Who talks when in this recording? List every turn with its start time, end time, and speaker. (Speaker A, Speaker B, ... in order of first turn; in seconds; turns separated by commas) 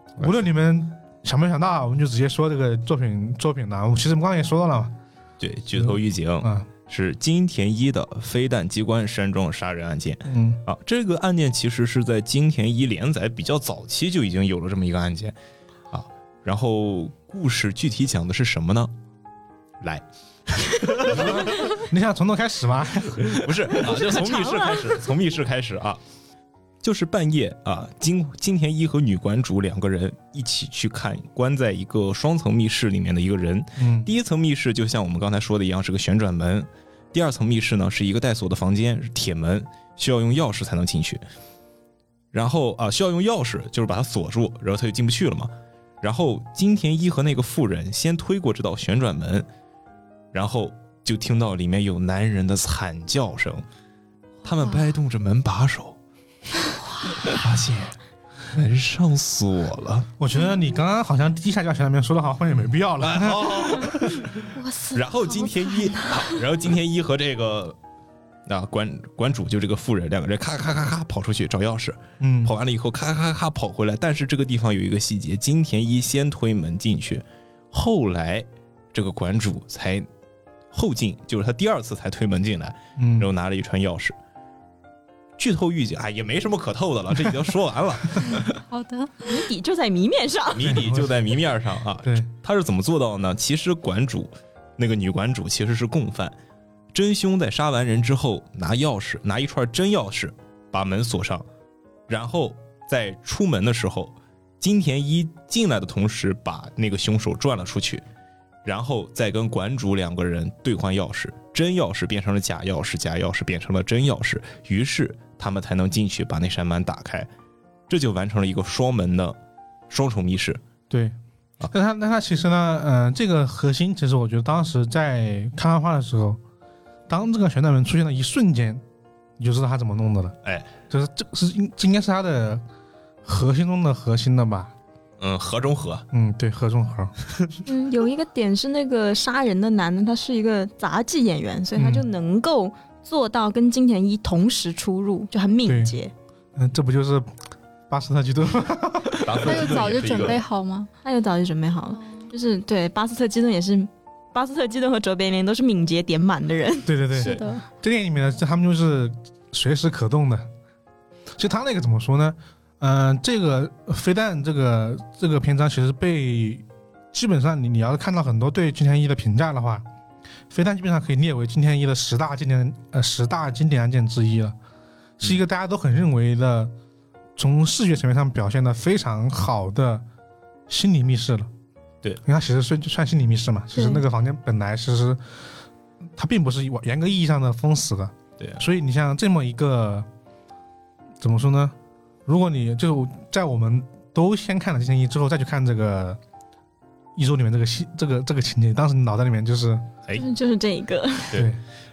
Speaker A: 0.2-4.9, Speaker B: 5.4-15.3, Speaker A: 5.7-6.7, Speaker A: 10.2-10.6, Speaker B: 15.9-18.9, Speaker B: 19.8-21.7, Speaker A: 21.0-23.8, Speaker B: 23.2-26.0, Speaker C: 23.8-25.0, Speaker B: 26.8-41.2, Speaker A: 33.8-34.1, Speaker B: 42.3-45.5, Speaker B: 46.0-49.5, Speaker B: 50.3-53.6, Speaker B: 54.4-56.0, Speaker C: 54.5-54.8, Speaker C: 56.7-57.4, Speaker B: 57.2-58.0, Speaker B: 58.5-60.1, Speaker A: 60.2-64.3, Speaker B: 63.0-67.8, Speaker C: 64.5-66.3, Speaker B: 68.5-80.1, Speaker A: 72.2-72.5, Speaker B: 80.7-84.2, Speaker A: 83.0-83.3, Speaker B: 85.4-88.4, Speaker D: 88.5-89.3, Speaker C: 89.2-90.8, Speaker B: 90.5-96.3, Speaker A: 90.6-91.1, Speaker B: 96.9-101.5, Speaker B: 102.1-108.0, Speaker B: 108.6-117.3, Speaker B: 117.9-119.4, Speaker B: 119.9-120.6, Speaker A: 120.9-121.2, Speaker A: 121.7-126.4, Speaker A: 127.1-128.8, Speaker A: 129.4-130.4, Speaker B: 130.4-130.7, Speaker A: 130.9-132.6, Speaker A: 133.2-134.7, Speaker B: 135.2-136.1, Speaker A: 136.1-137.1, Speaker C: 137.7-146.1, Speaker A: 141.8-142.1, Speaker A: 145.6-145.9, Speaker A: 146.5-147.3, Speaker A: 147.9-149.9, Speaker B: 149.2-150.4, Speaker D: 149.4-150.9, Speaker C: 151.0-156.9, Speaker D: 151.9-152.3, Speaker A: 156.8-160.5, Speaker D: 157.1-157.6, Speaker A: 161.3-169.8, Speaker A: 170.5-174.5, Speaker A: 175.2-176.7, Speaker A: 177.4-180.0, Speaker A: 180.7-181.5, Speaker A: 182.2-185.2, Speaker D: 183.7-184.0, Speaker A: 186.2-190.1, Speaker A: 191.2-191.7, Speaker A: 192.2-196.2, Speaker A: 197.2-199.9, Speaker C: 200.1-201.4, Speaker A: 201.3-201.6